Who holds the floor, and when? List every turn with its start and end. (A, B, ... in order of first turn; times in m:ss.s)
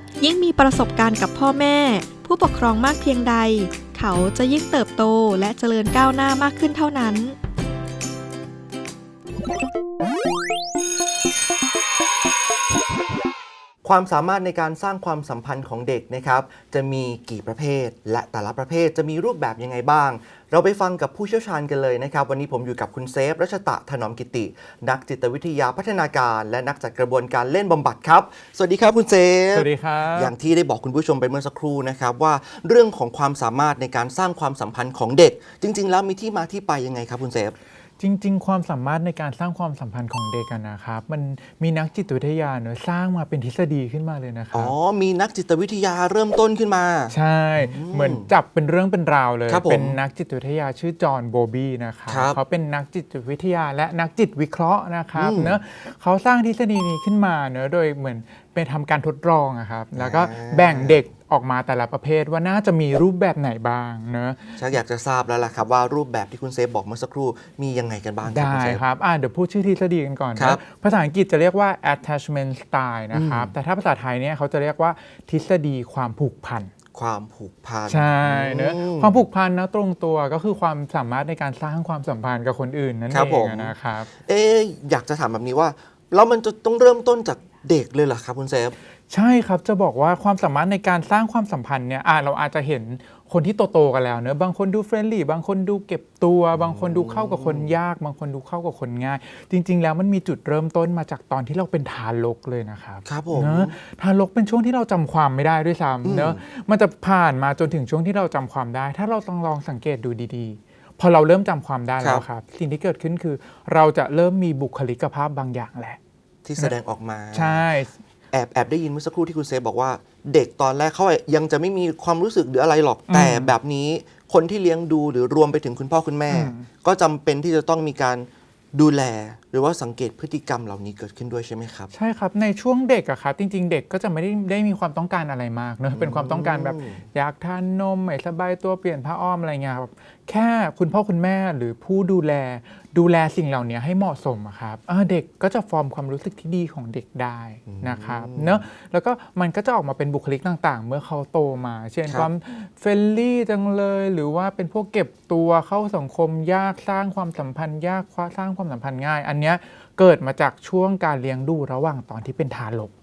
0:00.2-0:07.4 A
0:13.8-0:37.6 B
0:29.5-0:30.3 C
0:38.0-0:44.7 C
0:44.5-0:48.3 B
0:47.1-1:04.6 C
0:49.5-0:50.0 B
0:52.1-0:52.4 B
0:55.2-0:55.6 B
1:00.0-1:01.0 B
1:04.6-1:08.8 B
1:08.2-1:16.7 C
1:10.4-1:10.6 B
1:13.1-1:13.5 B
1:16.9-1:19.2 B
1:17.9-1:24.1 C
1:23.1-1:28.7 B
1:29.1-1:56.0 C
1:36.5-1:37.7 B
1:43.0-1:43.7 B
1:46.0-1:46.4 B
1:56.4-1:57.6 B
1:57.3-1:57.9 C
1:58.3-2:11.9 B
2:03.1-2:03.5 C
2:06.3-2:06.7 C
2:11.9-2:42.9 C
2:15.9-2:17.0 B
2:27.7-2:28.6 B